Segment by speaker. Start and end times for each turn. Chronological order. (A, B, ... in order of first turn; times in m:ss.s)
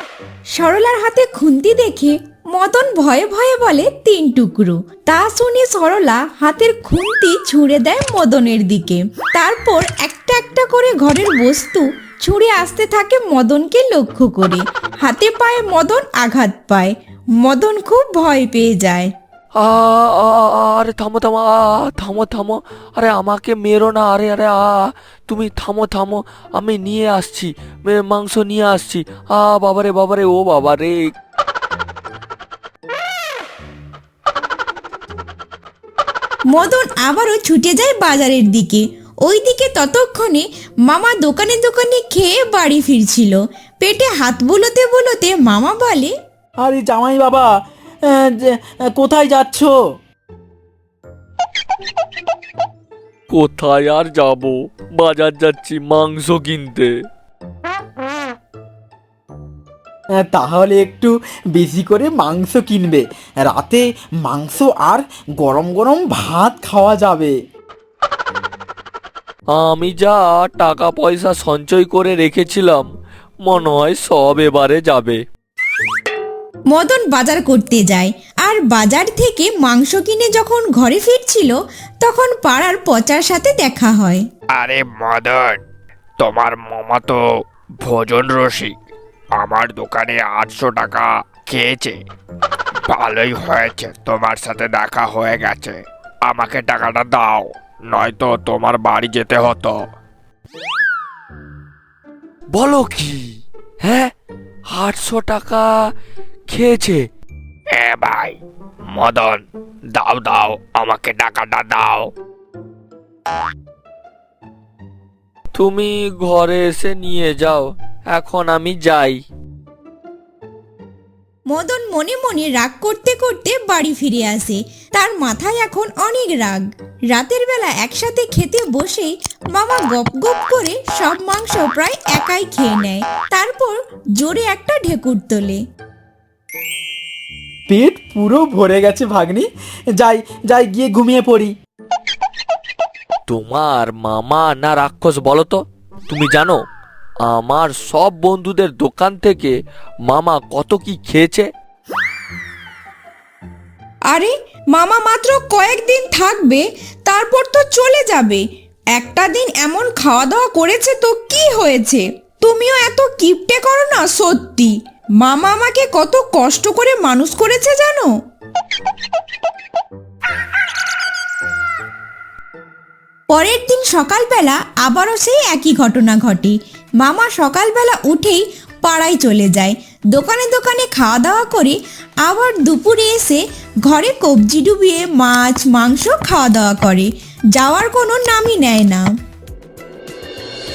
0:00.5-0:19.1 A
0:19.6-0:31.0 B
0:36.5-0:46.1 A
0:46.6-0:47.5 C
0:48.1-0:49.7 C
0:53.3-0:56.9 B
1:00.2-1:07.3 C
1:09.5-1:12.9 B
1:13.4-1:15.2 B
1:16.7-1:24.2 A
1:24.6-1:25.6 D
1:26.2-1:27.2 D
1:27.8-1:28.7 D
1:29.4-1:32.0 D
1:32.9-1:39.8 D
1:42.5-1:43.2 B
1:43.8-1:44.1 B
1:44.7-1:45.7 B
1:46.5-1:47.0 B
1:47.7-1:48.4 D
1:48.9-1:49.4 D
1:49.9-1:52.1 D
1:55.5-1:59.2 B
2:01.5-2:15.6 A
2:17.7-2:19.5 C
2:20.0-2:21.5 C
2:23.3-2:26.6 B
2:27.2-2:29.5 B
2:30.1-2:31.4 B
2:34.1-2:38.4 A
2:38.9-2:48.1 A
2:53.3-3:09.1 A